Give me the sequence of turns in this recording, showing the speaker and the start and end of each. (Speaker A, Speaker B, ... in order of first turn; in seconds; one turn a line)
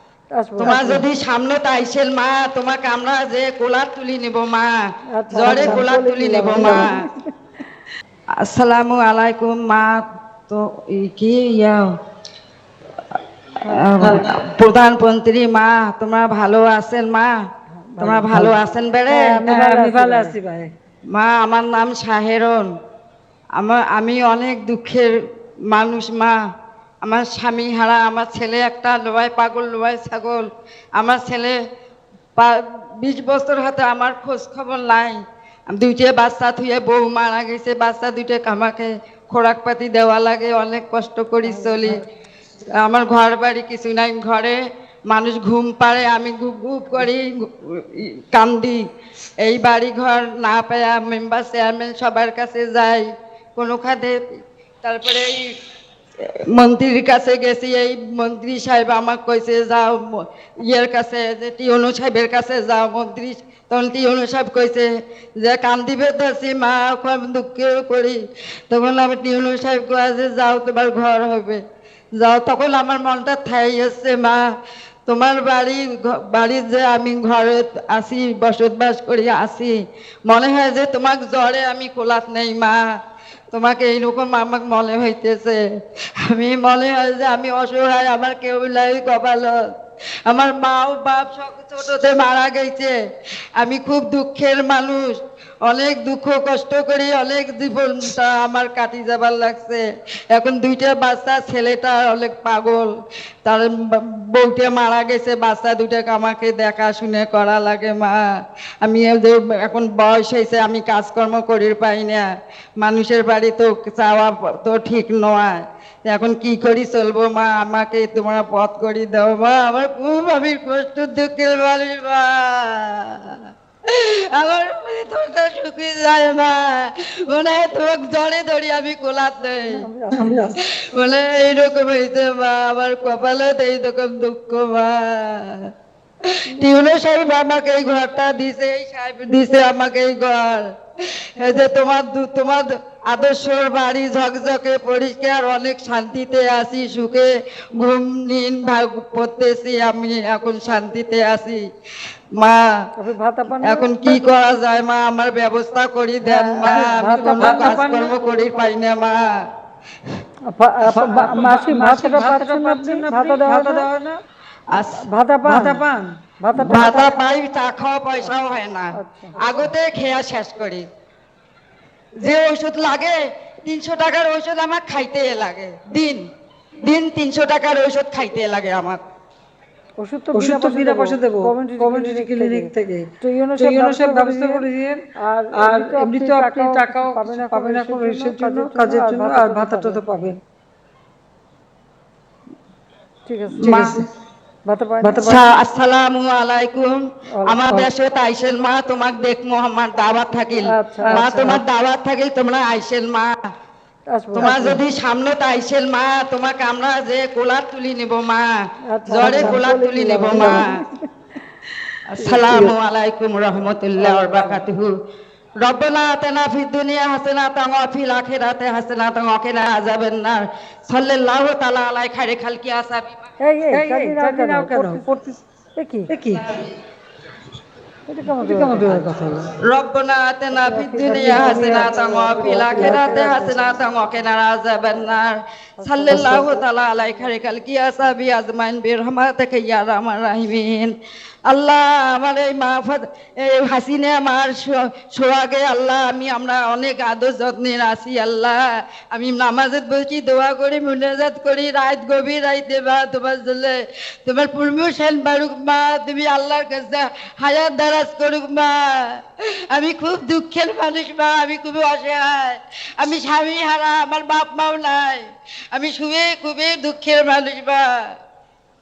Speaker A: 0.3-1.0
Speaker B: 0.6-4.7
Speaker A: 5.2-7.1
Speaker B: 5.3-7.0
Speaker C: 5.4-5.9
Speaker C: 6.6-6.9
Speaker B: 8.4-11.9
Speaker A: 13.6-14.2
Speaker B: 13.7-17.3
Speaker A: 17.7-18.3
Speaker B: 18.0-19.3
Speaker C: 19.1-20.7
Speaker A: 19.2-20.4
Speaker B: 21.1-22.7
Speaker B: 23.6-25.1
Speaker B: 25.7-26.3
Speaker B: 27.0-30.5
Speaker B: 31.0-31.5
Speaker B: 32.4-35.2
Speaker B: 35.7-42.0
Speaker A: 41.5-41.9
Speaker B: 42.8-44.6
Speaker B: 45.1-48.8
Speaker B: 49.4-54.2
Speaker B: 54.8-55.5
Speaker B: 56.5-64.9
Speaker B: 65.4-71.6
Speaker B: 72.2-74.4
Speaker B: 75.1-79.7
Speaker B: 80.3-82.8
Speaker B: 83.5-85.6
Speaker B: 86.2-89.7
Speaker B: 90.3-92.9
Speaker B: 93.6-95.1
Speaker B: 95.7-99.8
Speaker B: 100.3-102.9
Speaker B: 103.5-108.2
Speaker B: 108.8-112.3
Speaker B: 112.8-129.8
Speaker A: 129.7-130.6
Speaker C: 130.1-130.5
Speaker B: 130.9-135.7
Speaker B: 136.3-151.6
Speaker A: 153.0-154.3
Speaker B: 153.6-159.3
Speaker A: 156.2-157.9
Speaker C: 156.7-158.1
Speaker A: 160.5-163.9
Speaker C: 160.8-164.2
Speaker B: 164.7-165.0
Speaker A: 165.1-165.8
Speaker C: 165.4-167.1
Speaker A: 166.4-167.1
Speaker B: 166.6-170.8
Speaker A: 169.0-169.4
Speaker B: 172.2-176.2
Speaker B: 176.8-179.0
Speaker A: 180.0-182.7
Speaker C: 180.3-185.0
Speaker A: 183.2-184.7
Speaker A: 185.2-190.0
Speaker C: 185.5-190.4
Speaker A: 193.3-194.0
Speaker B: 193.6-194.0
Speaker C: 193.6-194.0
Speaker A: 194.7-195.4
Speaker C: 195.0-195.4
Speaker B: 195.2-203.3
Speaker A: 200.8-201.5
Speaker C: 201.0-201.6
Speaker A: 204.1-204.8
Speaker C: 204.3-204.7
Speaker B: 204.4-208.5
Speaker A: 208.9-210.7
Speaker B: 209.1-210.8
Speaker C: 209.2-209.6
Speaker C: 210.3-210.7
Speaker B: 212.1-214.9
Speaker C: 212.2-212.7
Speaker A: 214.0-214.6
Speaker B: 215.6-223.1
Speaker A: 223.4-225.1
Speaker C: 223.7-225.4
Speaker A: 225.8-226.1
Speaker C: 226.1-226.6
Speaker A: 228.1-229.1
Speaker C: 228.3-229.5
Speaker B: 229.7-240.9
Speaker A: 230.5-233.5
Speaker C: 231.1-233.6
Speaker A: 235.8-237.3
Speaker C: 236.1-236.5
Speaker B: 241.5-248.6
Speaker B: 249.1-267.9